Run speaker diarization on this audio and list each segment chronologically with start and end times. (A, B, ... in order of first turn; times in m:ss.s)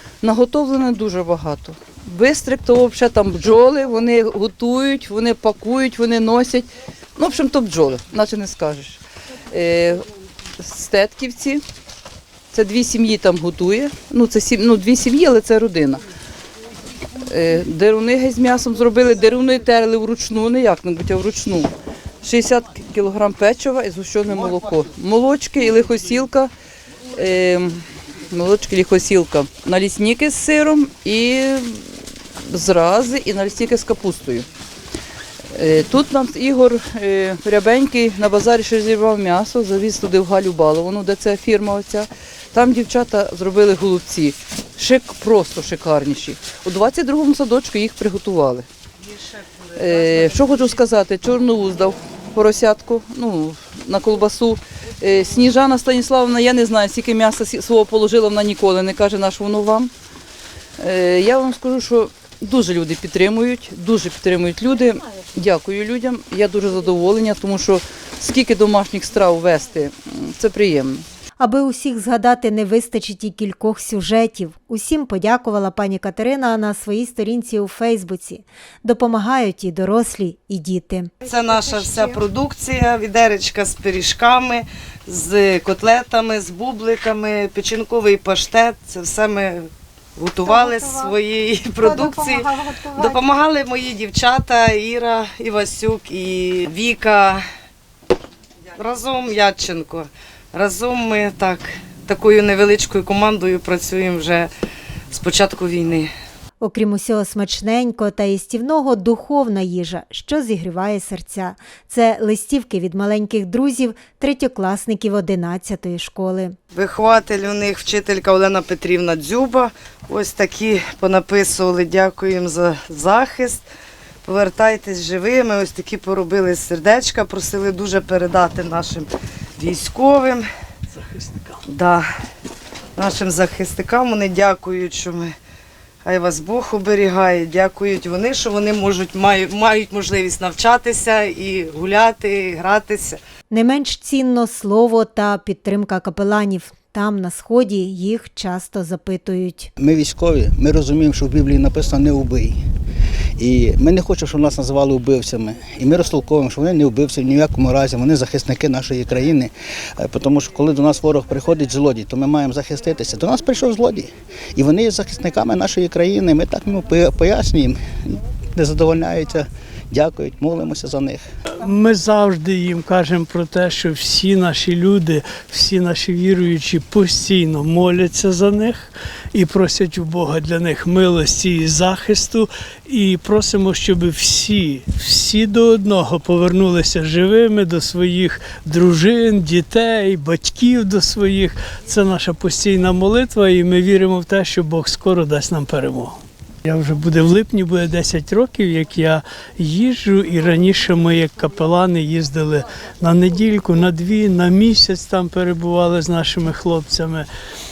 0:00.2-0:10.1 A
0:10.6-0:11.6 A
0:12.5-0:16.0 A
0:17.2-0:26.5 A
0:27.1-0:34.5 A
0:35.5-0:48.7 A
0:49.7-0:59.9 A
1:00.8-1:11.0 A
1:11.4-1:21.1 B
1:21.3-1:37.4 C
1:38.8-1:44.5 C
1:45.1-1:46.1 C
1:46.6-1:56.6 B
1:56.7-2:03.6 C
2:04.2-2:10.4 C
2:11.0-2:11.6 D
2:11.7-2:12.0 C
2:13.0-2:15.3 C
2:16.0-2:23.2 C
2:23.5-2:29.7 B
2:29.8-2:32.6 E
2:33.4-2:51.2 E
2:51.5-3:27.3 D